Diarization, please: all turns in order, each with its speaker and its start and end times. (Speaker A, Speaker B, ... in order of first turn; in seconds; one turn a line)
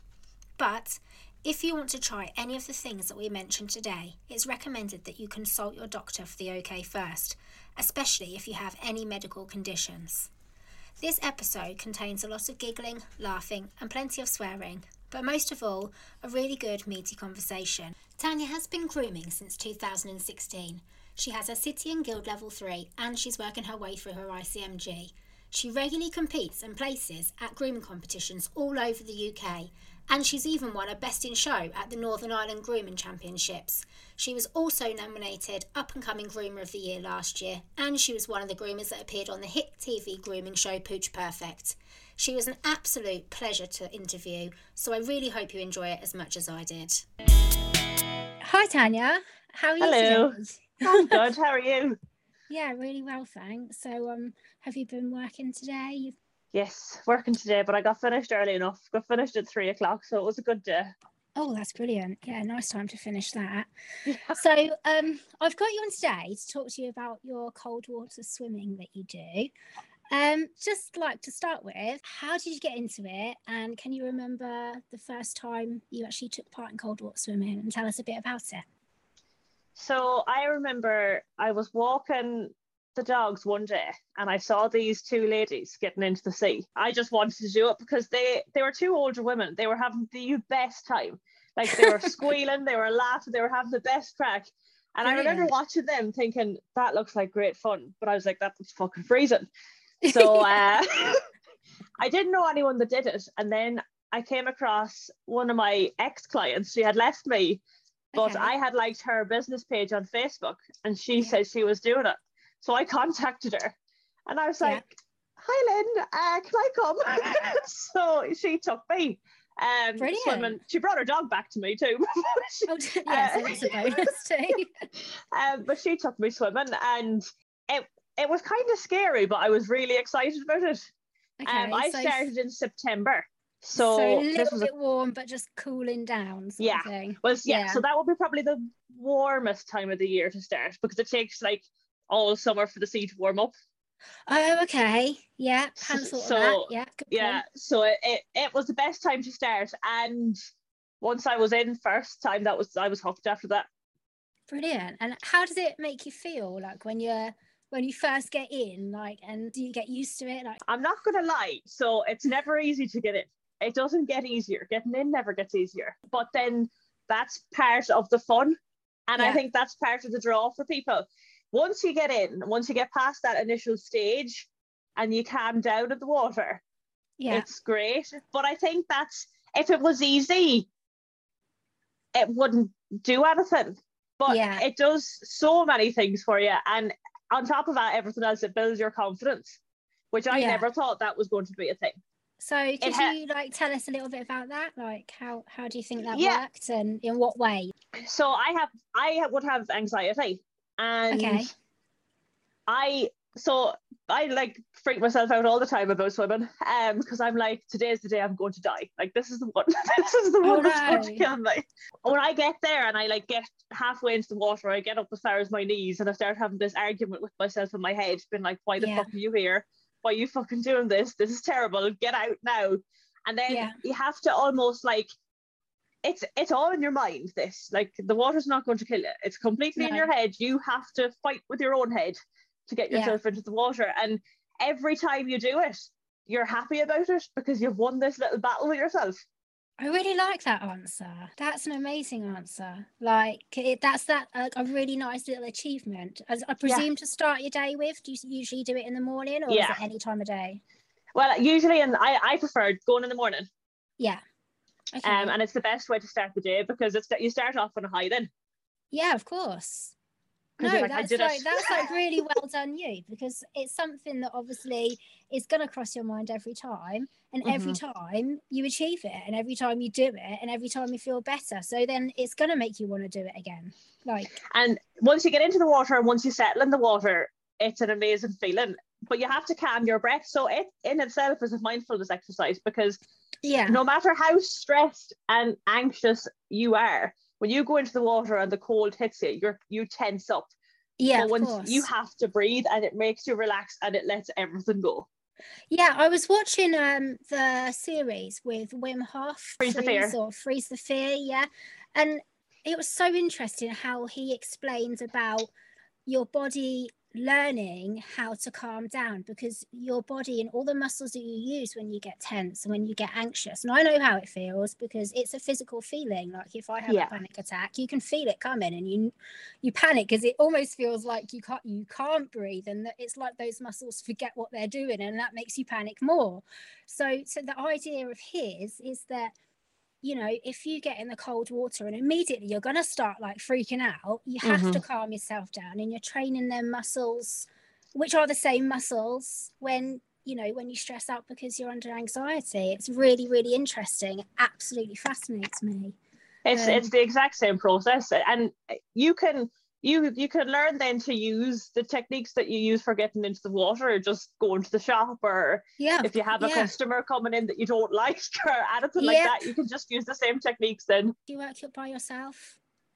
Speaker A: 0.6-10.3
Speaker A: 11.0-47.0
Speaker A: 48.4-51.2
Speaker B: 49.8-52.0
Speaker A: 52.5-56.2
Speaker B: 56.5-60.9
Speaker A: 61.4-63.7
Speaker B: 64.0-64.4
Speaker A: 64.3-69.5
Speaker A: 70.1-78.6
Speaker B: 79.8-99.5
Speaker A: 91.7-92.2
Speaker A: 95.0-95.5
Speaker A: 100.0-100.6
Speaker B: 100.1-101.2
Speaker B: 102.0-107.6
Speaker A: 108.1-108.5
Speaker B: 108.2-113.8
Speaker B: 114.3-124.0
Speaker A: 120.0-120.6
Speaker A: 122.7-124.8
Speaker B: 125.1-130.9
Speaker A: 131.4-132.3
Speaker B: 131.5-134.7
Speaker A: 133.8-137.8
Speaker B: 136.6-143.5
Speaker A: 144.3-147.4
Speaker B: 145.8-150.4
Speaker B: 151.0-153.7
Speaker A: 154.5-160.6
Speaker B: 160.7-168.6
Speaker B: 169.1-176.6
Speaker A: 177.2-177.5
Speaker B: 177.3-180.7
Speaker B: 182.1-189.6
Speaker A: 184.3-184.6
Speaker B: 190.1-192.0
Speaker A: 190.3-190.7
Speaker A: 192.4-197.7
Speaker B: 192.8-193.1
Speaker B: 196.1-196.4
Speaker B: 197.9-201.5
Speaker A: 201.1-201.5
Speaker B: 202.7-225.1
Speaker A: 210.4-211.2
Speaker A: 218.8-219.1
Speaker A: 223.5-223.8
Speaker B: 226.0-239.2
Speaker A: 229.8-230.1
Speaker A: 232.9-233.2
Speaker A: 239.8-250.6
Speaker B: 249.5-249.8
Speaker B: 251.1-253.5
Speaker A: 254.9-255.3
Speaker B: 255.0-258.3
Speaker A: 258.9-259.9
Speaker B: 260.6-261.9
Speaker A: 260.6-274.4
Speaker B: 267.4-267.8
Speaker B: 274.5-283.0
Speaker A: 283.4-283.8
Speaker B: 283.7-290.5
Speaker A: 291.0-291.9
Speaker B: 291.1-295.1
Speaker A: 295.7-305.5
Speaker B: 299.6-300.1
Speaker A: 306.1-329.3
Speaker B: 316.9-317.1
Speaker A: 330.0-345.9
Speaker B: 334.4-334.8
Speaker B: 346.4-361.1
Speaker A: 346.5-346.9
Speaker A: 355.8-356.7
Speaker A: 359.0-359.5
Speaker A: 361.3-362.6